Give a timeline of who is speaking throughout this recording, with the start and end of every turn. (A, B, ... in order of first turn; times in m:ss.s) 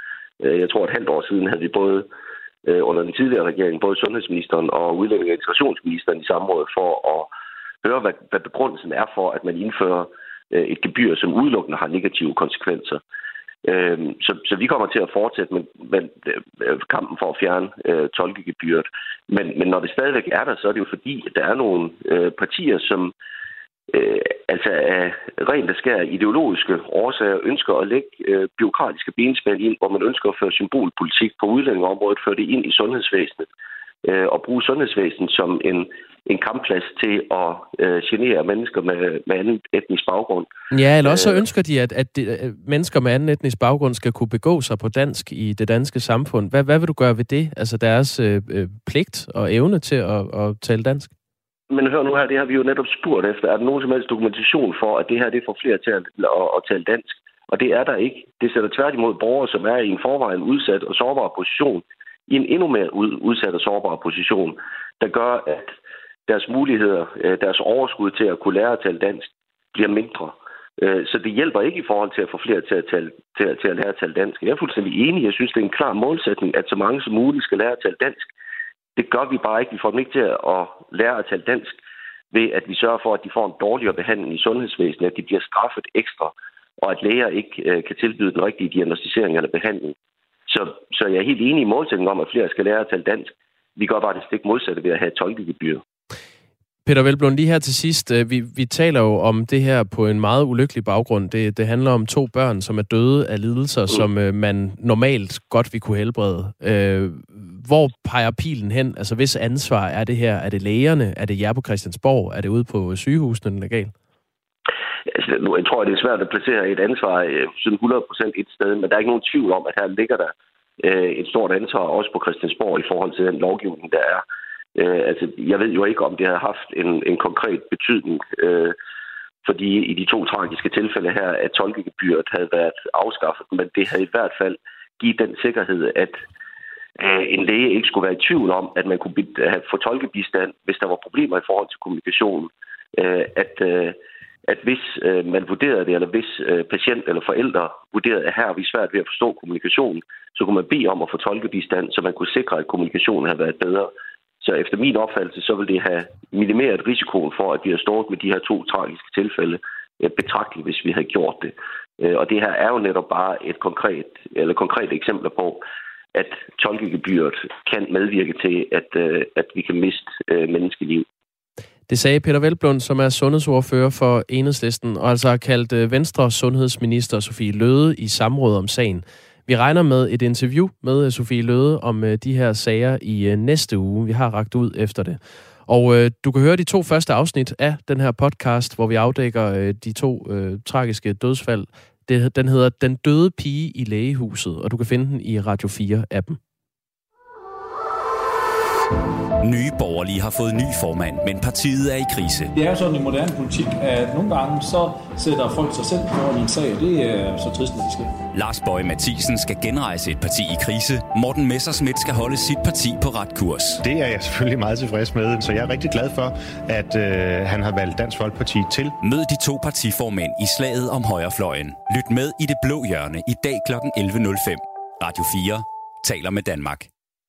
0:00.4-0:02.1 A
0:02.6-0:07.3 A
0:07.8-0:13.0 A
0:13.6-0:23.1 A
0:23.9-0:33.5 A
0:34.0-0:40.5 A
0:40.7-0:51.1 B
0:41.0-0:41.4 A
0:51.7-1:05.7 A
1:06.3-1:18.3 A
1:19.0-1:21.8 A
1:22.3-1:29.9 A
1:30.5-1:35.8 A
1:36.8-1:53.9 B
1:55.1-2:04.2 A
2:04.8-2:08.7 A
2:09.4-2:16.2 A
2:17.0-2:45.6 A
2:46.1-2:51.0 A
2:51.9-3:16.4 B
3:19.4-3:22.5 C
3:22.5-3:28.1 D
3:28.3-3:33.8 C
3:33.8-3:38.9 E
3:39.0-3:46.9 C